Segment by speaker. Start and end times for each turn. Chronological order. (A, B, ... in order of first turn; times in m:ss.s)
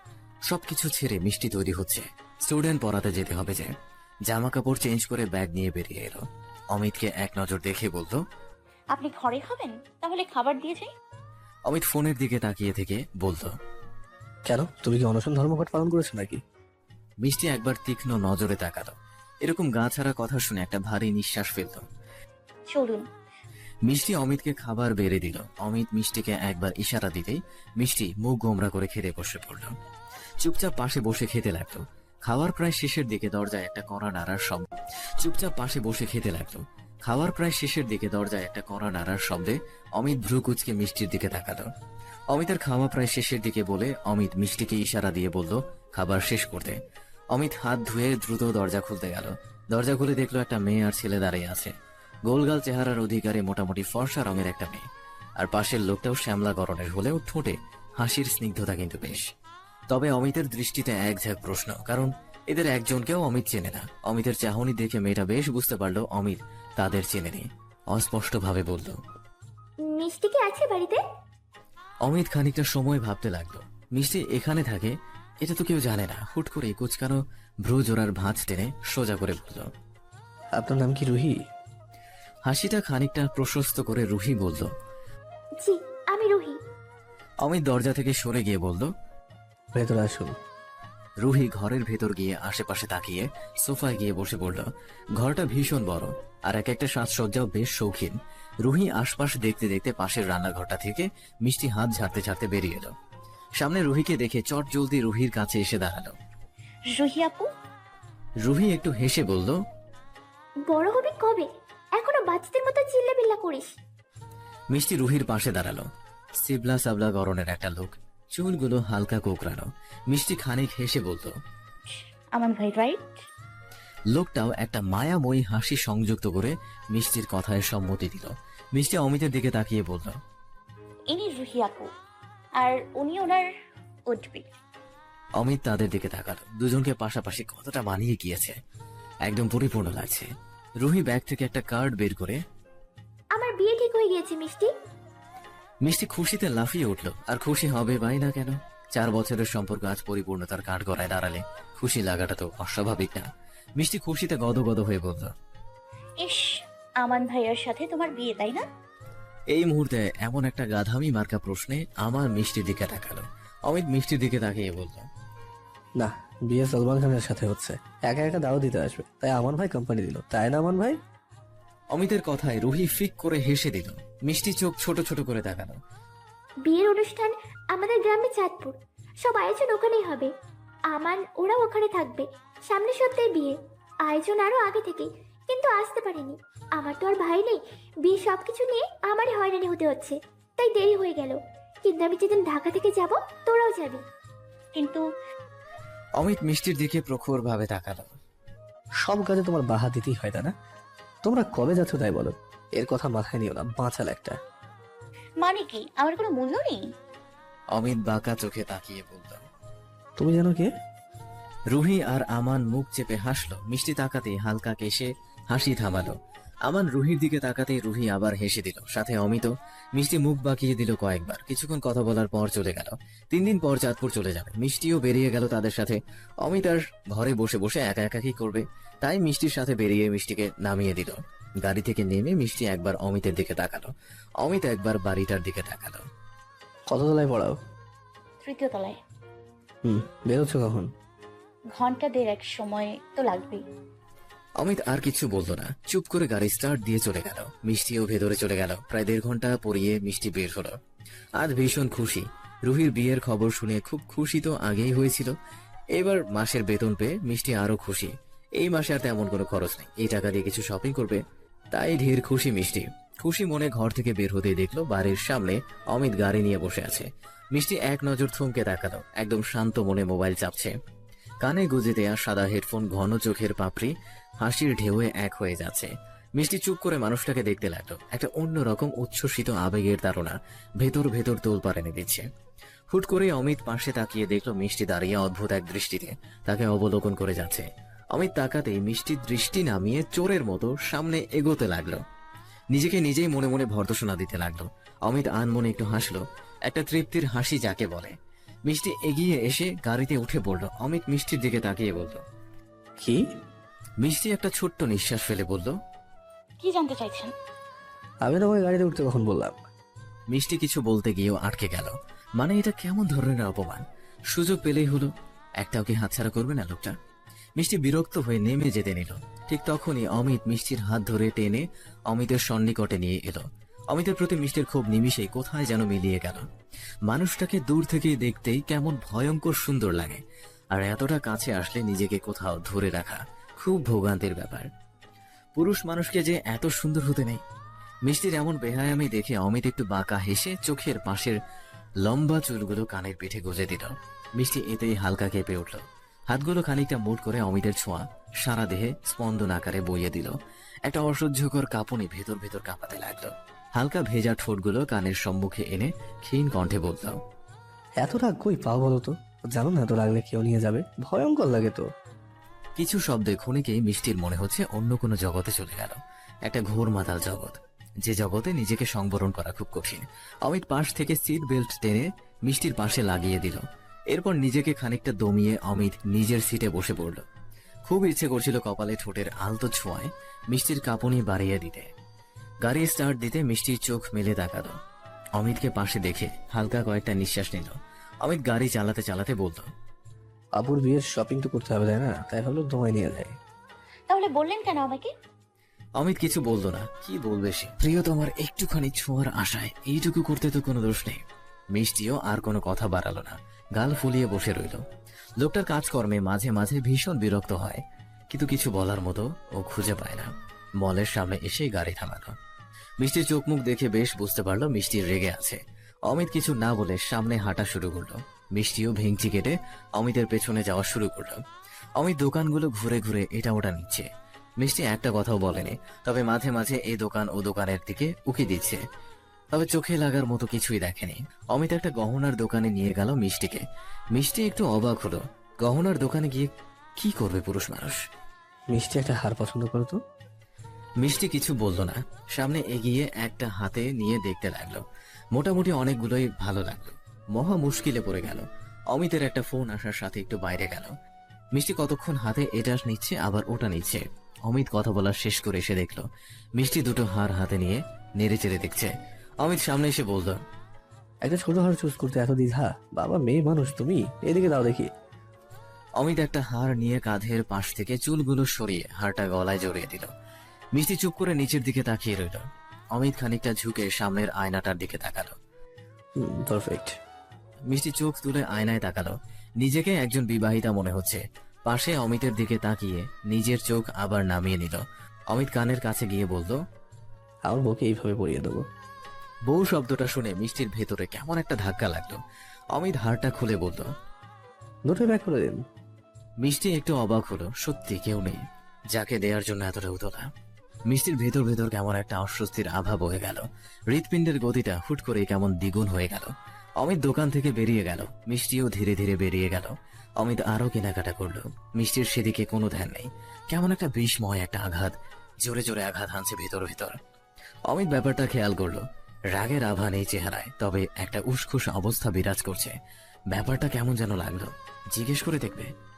0:00.5-0:03.7 A
0:04.3-0:06.2 A
0:06.7-0:08.2 A
0:08.9-0:10.9 B
0:11.7-0:13.5 A
0:14.4-0:16.4 C
0:17.2-0:21.8 A
0:22.7-0:23.0 B
0:23.8-0:29.7 A
0:30.4-0:34.6 A
0:35.2-0:41.7 A
0:42.3-0:46.8 A
0:47.3-0:51.7 A
0:52.3-0:54.8 A
0:55.4-0:59.3 A
0:59.9-1:09.0 A
1:09.8-1:11.0 D
1:12.0-1:19.7 A
1:20.6-1:21.4 C
1:22.4-1:24.7 A
1:25.6-1:26.6 D
1:27.4-1:28.9 A
1:29.7-1:30.3 C
1:31.2-1:42.9 A
1:43.6-1:46.1 A
1:46.9-1:47.5 B
1:48.4-1:49.6 A
1:50.7-1:53.7 D
1:54.7-1:55.9 A
1:56.4-2:01.3 A
2:02.4-2:03.1 B
2:04.1-2:10.1 A
2:11.1-2:11.9 B
2:12.6-2:13.5 B
2:14.1-2:14.5 B
2:15.4-2:18.6 A
2:19.2-2:20.3 A
2:20.8-2:22.4 A
2:23.3-2:24.7 D
2:25.8-2:33.3 A
2:33.8-2:35.3 A
2:36.2-2:36.4 B
2:37.0-2:38.6 B
2:39.5-2:45.0 A
2:46.0-2:51.0 C
2:51.9-2:55.8 A
2:56.6-3:00.3 D
3:00.9-3:14.0 D
3:14.7-3:15.0 B
3:16.2-3:18.1 A
3:19.0-3:20.5 C
3:21.2-3:24.4 C
3:25.4-3:26.8 B
3:27.7-3:29.4 A
3:30.2-3:30.7 C
3:31.7-3:36.1 A
3:36.6-3:53.9 A
3:54.4-3:56.0 A
3:56.9-3:57.5 C
3:58.4-3:59.0 B
3:59.8-4:00.9 C
4:01.7-4:03.6 B
4:04.6-4:10.7 A
4:11.4-4:15.3 A
4:16.0-4:21.2 A
4:21.7-4:30.7 A
4:31.4-4:42.2 A
4:42.9-4:52.0 A
4:52.7-4:58.1 A
4:58.7-5:02.2 A
5:04.0-5:05.7 A
5:06.6-5:07.3 B
5:08.2-5:09.6 C
5:10.3-5:15.1 A
5:15.6-5:16.9 A
5:17.6-5:26.4 A
5:27.1-5:30.2 A
5:30.7-5:34.7 A
5:35.6-5:37.4 A
5:38.0-5:41.4 A
5:42.0-5:57.2 A
5:58.0-6:01.8 C
6:02.8-6:17.2 A
6:17.8-6:21.9 A
6:22.6-6:24.7 A
6:25.4-6:29.7 A
6:30.6-6:33.3 C
6:34.1-6:35.1 B
6:36.0-6:41.2 A
6:41.7-6:44.8 A
6:45.4-6:50.3 A
6:50.8-6:52.3 A
6:53.0-7:01.4 A
7:02.0-7:04.1 A
7:04.6-7:08.8 A
7:09.5-7:18.0 A
7:18.7-7:20.0 C
7:21.0-7:30.9 A
7:31.5-7:36.0 A
7:36.6-7:40.4 A
7:41.2-7:44.9 C
7:46.0-7:50.1 A
7:50.7-7:55.3 A
7:56.2-7:56.9 C
7:57.7-8:06.6 A
8:07.4-8:08.6 C
8:09.5-8:12.2 A
8:12.8-8:13.9 A
8:14.9-8:15.6 C
8:16.4-8:18.4 A
8:18.9-8:20.3 A
8:20.9-8:36.9 A
8:37.7-8:42.7 A
8:43.3-8:45.7 A